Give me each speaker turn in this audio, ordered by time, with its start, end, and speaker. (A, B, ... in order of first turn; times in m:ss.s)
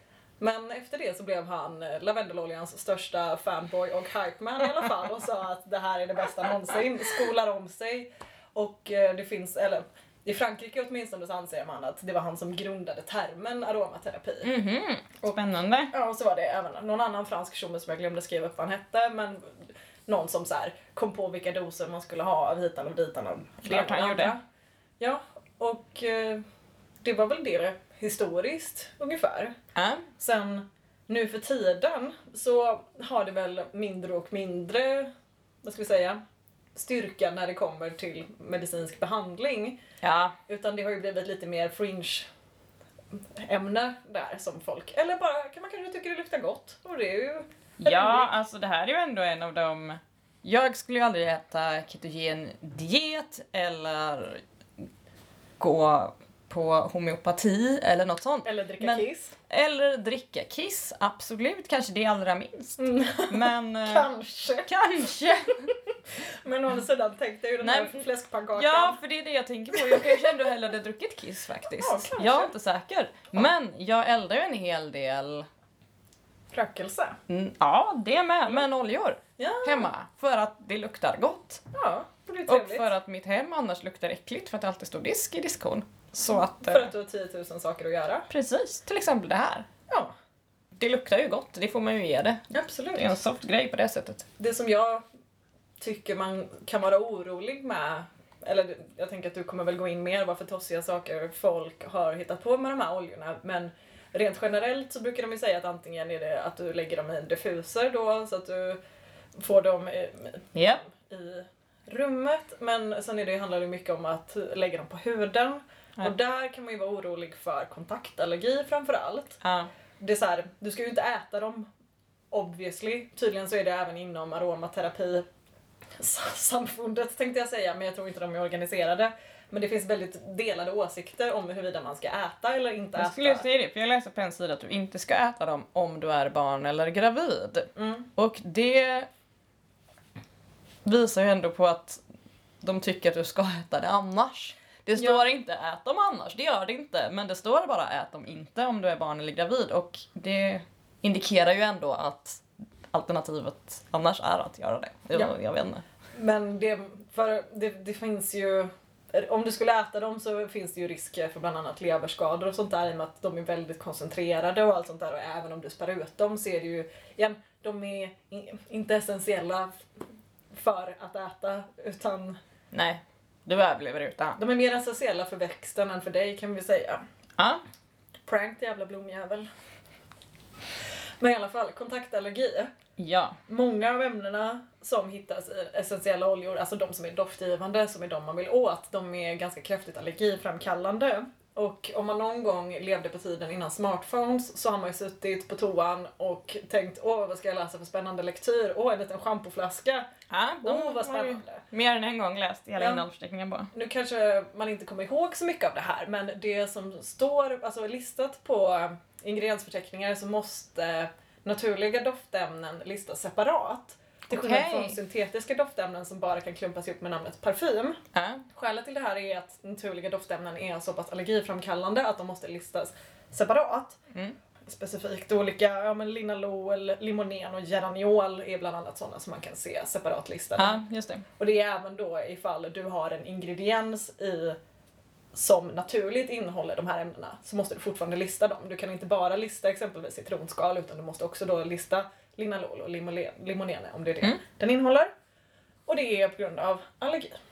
0:00.4-0:14.5 A
0:14.4-0:15.9 B
0:15.9-0:24.4 A
0:23.6-0:24.4 B
0:25.0-0:26.4 A
0:27.0-0:29.5 A
0:29.8-0:30.1 B
0:30.2-0:35.1 A
0:35.6-0:36.2 A
0:36.8-0:39.8 A
0:40.0-0:40.4 B
0:40.5-0:42.3 A
0:43.1-0:48.3 A
0:47.8-0:54.4 B
0:55.6-1:04.1 B
0:58.4-0:59.4 A
1:02.8-1:04.7 A
1:04.7-1:05.7 B
1:05.7-1:09.0 A
1:07.6-1:15.5 B
1:09.7-1:10.3 A
1:11.8-1:12.5 A
1:16.5-1:17.2 A
1:17.3-1:21.6 B
1:19.4-1:19.9 A
1:21.7-1:22.9 A
1:22.5-1:26.9 B
1:26.3-1:28.3 A
1:28.3-1:29.7 B
1:30.8-1:34.3 B
1:32.5-1:33.1 A
1:34.4-1:35.0 A
1:35.8-1:48.8 A
1:49.4-1:59.4 A
1:50.6-1:50.8 B
1:59.4-1:59.7 B
2:00.0-2:01.7 A
2:02.3-2:05.3 A
2:06.0-2:13.5 A
2:13.0-2:19.1 B
2:17.8-2:18.1 A
2:20.8-2:22.0 B
2:22.6-2:35.8 B
2:36.1-2:49.7 A
2:50.5-2:52.4 A
2:52.7-2:54.4 B
2:54.4-2:57.0 A
2:58.3-2:59.5 A
3:01.2-3:02.7 A
3:03.0-3:03.4 B
3:03.5-3:20.1 A
3:20.3-3:23.7 B
3:20.6-3:21.6 A
3:22.8-3:23.0 A
3:23.7-3:38.0 A
3:34.3-3:35.0 B
3:38.1-3:38.4 B
3:38.5-3:44.0 A
3:44.7-3:50.8 A
3:50.6-3:51.2 B
3:51.4-3:54.6 A
3:55.3-4:05.1 A
4:05.9-4:07.4 A